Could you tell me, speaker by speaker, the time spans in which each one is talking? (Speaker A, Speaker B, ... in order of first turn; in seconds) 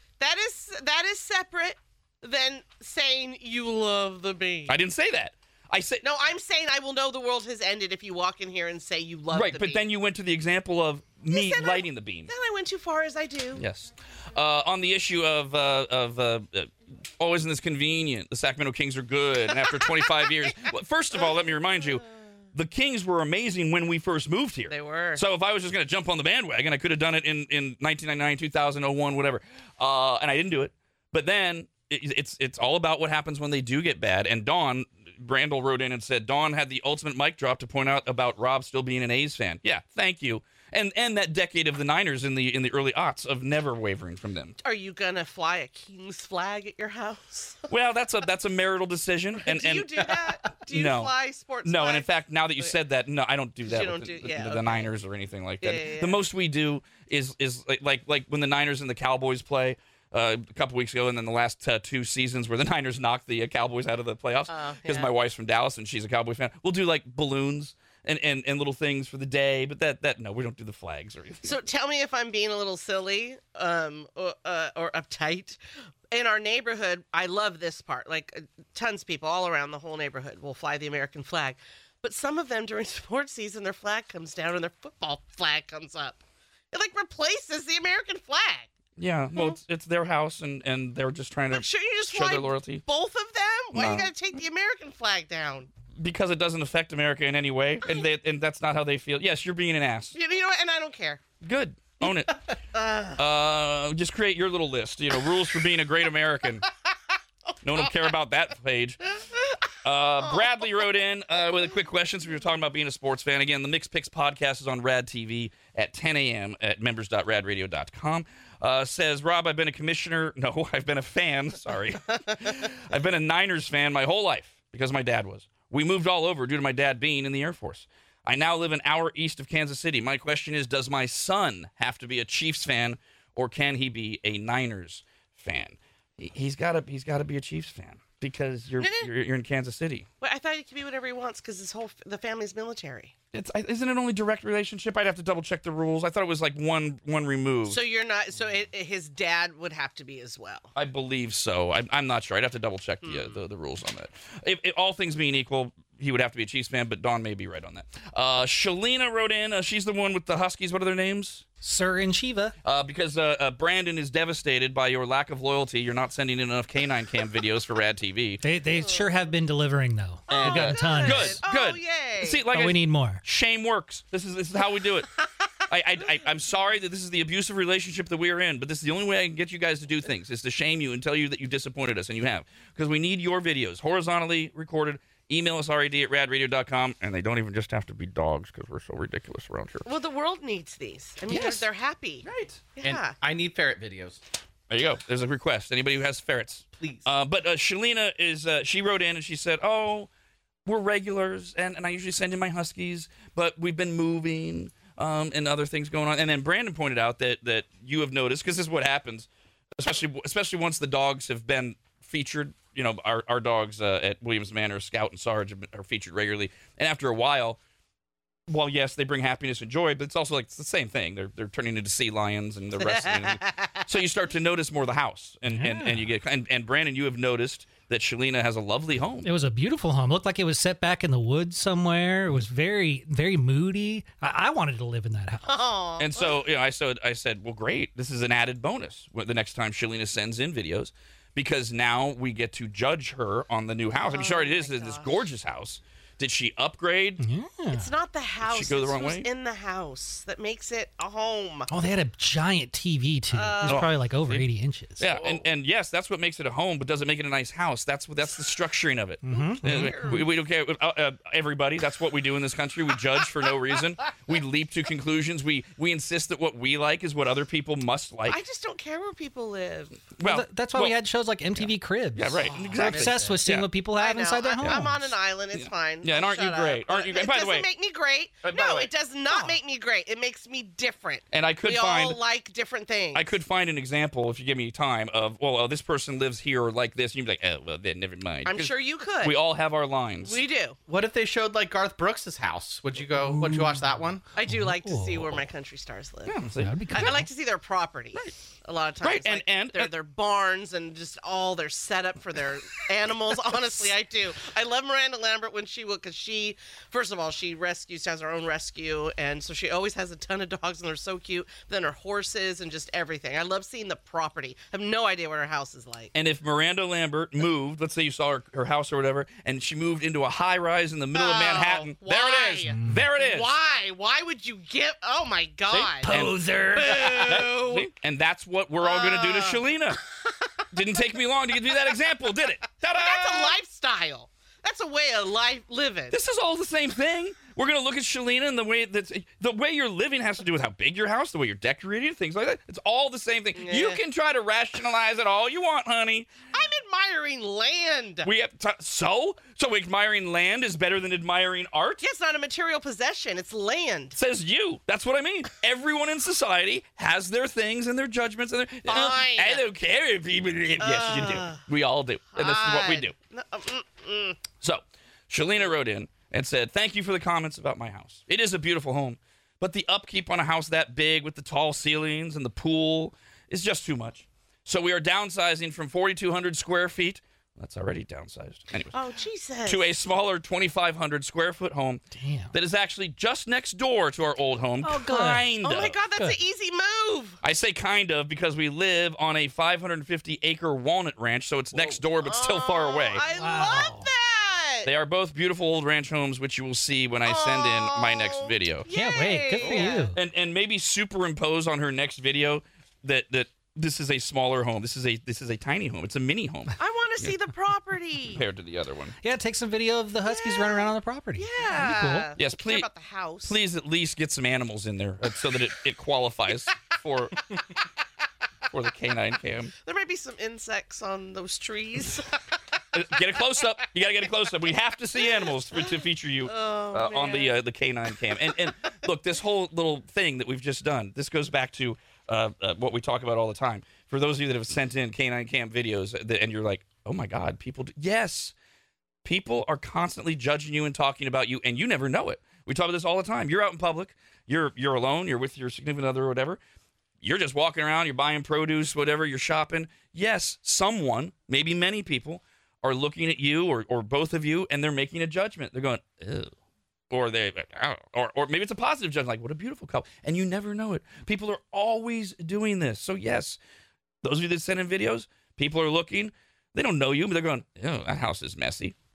Speaker A: 0.2-4.8, 6.0-9.8, 11.3-13.6, 24.7-25.2, 44.6-47.7, 49.5-52.8, 53.7-54.9, 55.6-56.2, 64.5-65.1, 71.5-75.6, 76.1-86.2, 86.7-88.7, 91.5-95.7, 100.1-101.2, 102.7-103.2, 138.8-139.1, 140.2-143.1, 147.7-150.7, 153.0-153.4, 168.8-169.1, 170.3-172.5, 189.9-193.2, 222.8-223.8, 235.5-236.4, 244.0-245.2, 247.7-251.7, 253.3-253.9, 259.3-260.3, 268.3-270.0, 274.0-283.3, 288.5-289.4, 290.2-290.8, 294.4-316.1, 321.1-327.9, 328.8-330.5, 332.9-336.2, 343.6-344.0, 346.5-348.3, 352.0-354.2, 358.9-359.6, 360.8-361.6, 362.4-364.4, 378.9-379.9, 385.6-387.4, 392.2-394.9, 397.2-400.1, 406.8-408.4, 410.3-413.6, 419.9-422.4, 425.5-427.6
Speaker B: 4.7-6.0, 9.3-12.3, 13.6-44.6, 47.7-71.6, 89.0-92.8, 93.7-94.1, 96.0-100.2, 101.4-102.5, 103.1-106.7, 107.6-109.0, 109.8-140.1, 143.3-147.8, 150.8-161.4, 162.7-168.4, 170.3-175.1, 175.7-189.9, 191.3-191.6, 194.7-200.1, 200.7-209.3, 209.8-217.6, 218.5-229.3, 236.0-247.2, 248.4-249.3, 253.7-253.9, 255.0-268.4, 270.2-271.0, 271.6-273.7, 275.5-277.7, 281.3-282.2, 283.1-290.4, 296.3-297.2, 299.0-299.9, 316.1-323.5, 325.7-330.0, 330.7-333.6, 336.1-346.3, 348.2-352.0, 354.1-363.1, 364.6-379.0, 379.6-386.0, 387.4-393.2, 394.9-398.9, 400.1-407.4, 408.3-409.1, 412.4-417.5, 418.7-419.7, 422.9-438.5, 439.2-446.6, 447.2-456.5, 457.1-463.6, 464.2-468.9
Speaker C: 161.6-162.6, 168.4-171.4, 172.4-173.2, 225.5-226.2, 229.2-235.6, 247.2-247.9, 251.7-255.1, 259.2-260.2, 270.2-275.1, 293.2-293.9, 294.4-295.5, 296.6-297.3, 322.7-323.1, 382.1-382.5, 384.8-385.6, 386.1-386.4, 393.2-394.1, 398.9-400.2, 409.2-412.3
Speaker D: 192.3-194.2, 196.8-197.1, 272.5-273.4, 278.4-278.9, 290.9-294.2, 399.6-399.9